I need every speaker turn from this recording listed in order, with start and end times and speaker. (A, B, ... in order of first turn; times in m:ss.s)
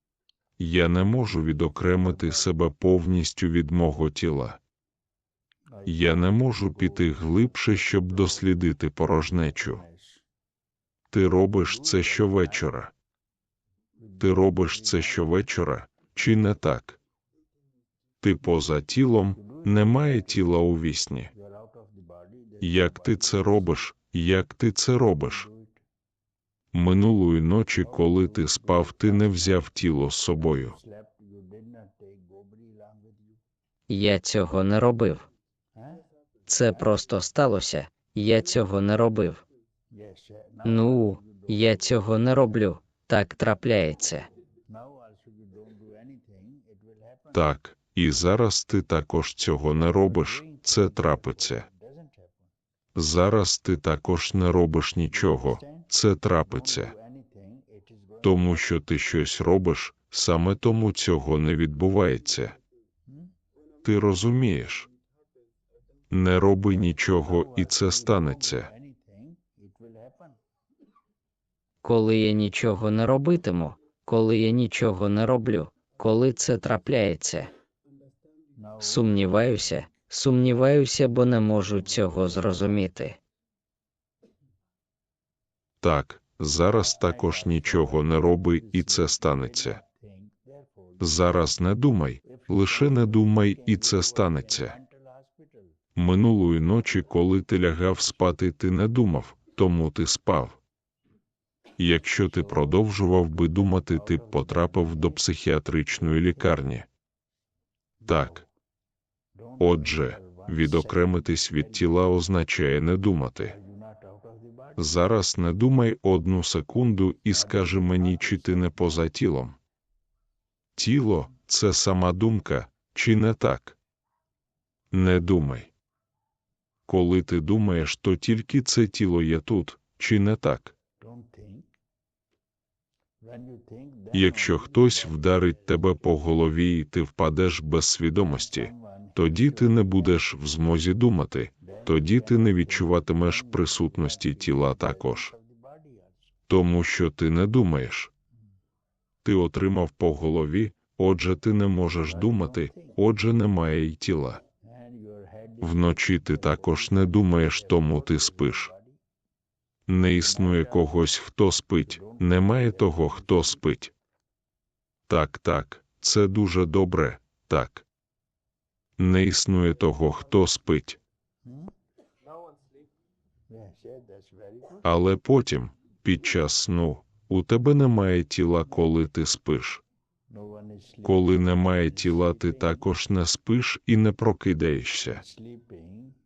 0:00.6-0:04.6 A
0:02.0-0:02.5 B
0:05.7-0:08.5 B
0:05.8-0:09.8 A
0:09.3-0:10.2 B
0:11.1-0:12.9 A
0:11.5-0:12.8 B
0:14.0-0:15.4 B
0:14.2-0:17.0 A
0:18.2-0:21.3 A
0:19.3-0:20.6 B
0:21.3-0:23.9 B
0:22.6-0:25.5 A
0:25.2-0:25.8 B
0:26.7-0:30.8 A
0:27.8-0:29.7 B
0:30.4-0:33.4 B
0:33.9-0:35.3 C
0:35.8-0:36.0 B
0:36.5-0:39.4 C
0:39.9-0:42.4 B
0:40.6-0:44.3 C
0:44.6-0:47.5 B
0:47.3-0:51.7 A
0:49.7-0:52.5 B
0:53.0-0:56.9 A
0:55.1-0:55.9 B
0:56.5-0:58.7 B
0:58.2-1:02.6 A
1:03.1-1:03.3 B
1:03.8-1:04.9 A
1:06.1-1:08.7 A
1:07.0-1:10.4 B
1:11.8-1:17.5 C
1:18.6-1:19.9 B
1:18.8-1:23.2 C
1:21.8-1:22.7 B
1:25.8-1:29.8 A
1:26.7-1:31.4 B
1:31.0-1:34.8 A
1:32.2-1:35.8 B
1:36.0-1:40.6 A
1:41.8-1:46.9 A
1:42.1-1:45.2 B
1:46.0-1:46.6 B
1:48.0-1:48.5 B
1:48.1-1:48.4 A
1:49.3-1:52.1 B
1:49.6-1:53.6 A
1:53.4-1:54.9 B
1:54.8-1:59.6 A
1:57.3-1:59.1 B
2:00.8-2:03.8 A
2:04.9-2:05.7 A
2:06.9-2:10.7 A
2:11.0-2:11.7 B
2:13.2-2:16.4 B
2:14.1-2:25.3 A
2:18.2-2:20.2 B
2:21.6-2:26.4 B
2:26.5-2:28.1 A
2:29.2-2:34.4 A
2:32.0-2:33.0 B
2:34.6-2:39.0 B
2:35.6-2:38.7 A
2:39.9-2:43.9 A
2:40.1-2:41.0 B
2:41.8-2:43.6 B
2:45.1-2:47.8 A
2:49.0-2:51.0 A
2:51.4-2:51.7 B
2:53.5-2:54.9 B
2:54.8-2:59.8 A
3:00.3-3:02.9 B
3:01.0-3:05.2 A
3:05.1-3:06.2 B